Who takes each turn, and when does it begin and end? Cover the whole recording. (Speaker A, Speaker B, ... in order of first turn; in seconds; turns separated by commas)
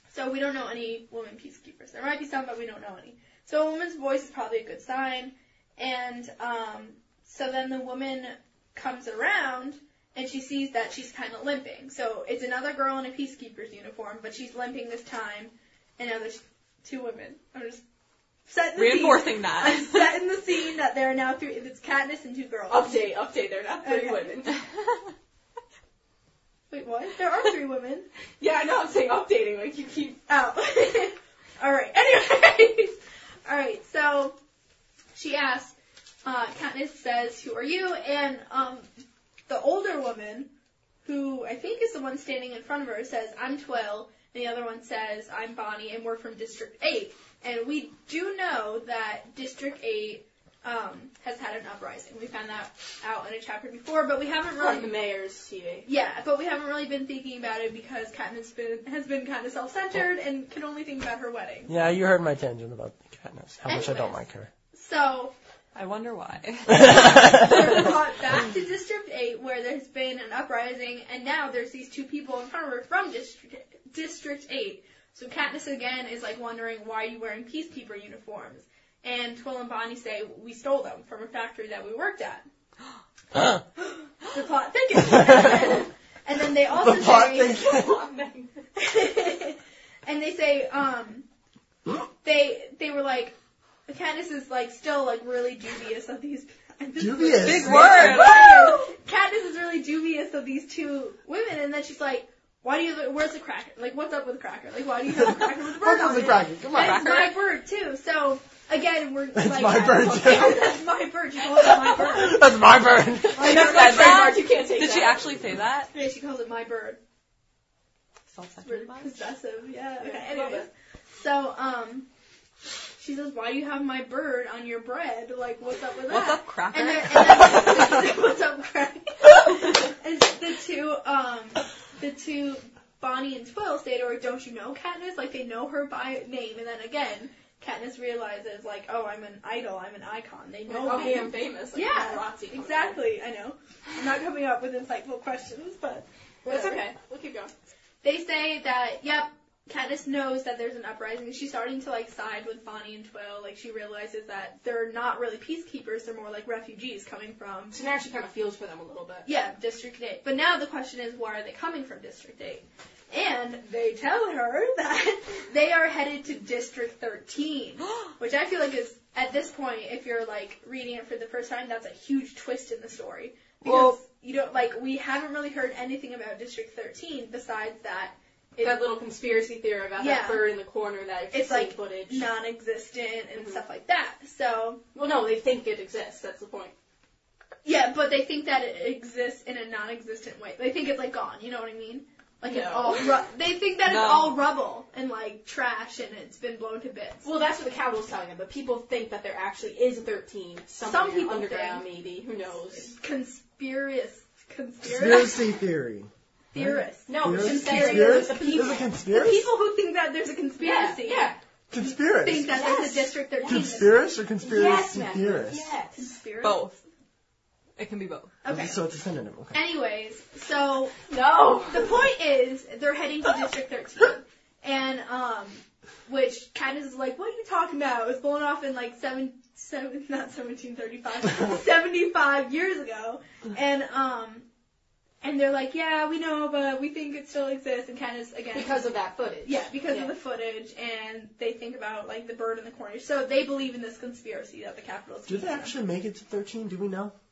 Speaker A: 0.1-17.8, Speaker A: 18.5-23.0, Speaker B: 18.8-20.1, Speaker C: 22.7-24.6, Speaker A: 23.8-24.5, Speaker A: 26.7-28.1, Speaker C: 28.4-30.2, Speaker A: 30.3-34.4, Speaker A: 35.1-38.9, Speaker A: 39.5-40.5, Speaker A: 41.0-54.9, Speaker C: 54.6-55.9, Speaker A: 55.9-61.7, Speaker D: 61.7-64.5, Speaker A: 63.7-64.2, Speaker A: 64.7-65.3, Speaker B: 65.7-67.7, Speaker D: 66.7-67.8, Speaker A: 66.7-82.5, Speaker D: 83.3-83.6, Speaker A: 83.8-87.7, Speaker D: 85.1-85.8, Speaker D: 86.7-88.0, Speaker C: 87.2-88.6, Speaker A: 88.8-91.2, Speaker A: 92.2-93.3, Speaker A: 93.9-112.5, Speaker D: 97.0-98.4, Speaker B: 97.4-98.8, Speaker D: 105.6-107.2, Speaker B: 106.8-107.4, Speaker D: 109.3-110.8, Speaker D: 111.8-113.7, Speaker A: 113.3-114.4, Speaker C: 113.4-115.3, Speaker B: 113.7-115.9, Speaker A: 115.9-117.0, Speaker B: 118.3-119.3, Speaker A: 118.7-122.1, Speaker C: 120.0-120.7, Speaker A: 123.0-146.8, Speaker B: 126.1-128.1, Speaker C: 140.7-143.0, Speaker C: 146.4-147.5, Speaker A: 148.0-157.8, Speaker C: 157.7-159.3, Speaker A: 159.3-178.8, Speaker C: 173.7-174.0, Speaker C: 178.6-182.3, Speaker A: 180.0-180.6, Speaker A: 181.3-184.8, Speaker C: 183.4-183.6, Speaker C: 184.9-186.7, Speaker A: 187.6-197.3, Speaker C: 192.4-193.2, Speaker B: 193.8-194.4, Speaker C: 197.2-202.9, Speaker A: 200.8-201.8, Speaker A: 202.9-205.5, Speaker D: 204.8-209.5, Speaker A: 206.5-213.9, Speaker C: 207.1-208.9, Speaker C: 210.6-211.4, Speaker D: 211.7-212.6, Speaker C: 212.5-213.7, Speaker D: 213.4-215.7, Speaker C: 214.4-216.1, Speaker A: 215.9-216.6, Speaker B: 216.4-216.8, Speaker B: 217.8-218.3, Speaker A: 218.4-218.8, Speaker D: 218.5-219.6, Speaker A: 219.5-221.0, Speaker C: 221.1-222.0, Speaker A: 221.7-234.5, Speaker A: 235.2-238.8, Speaker C: 238.5-240.1, Speaker A: 239.4-245.7, Speaker D: 245.3-247.1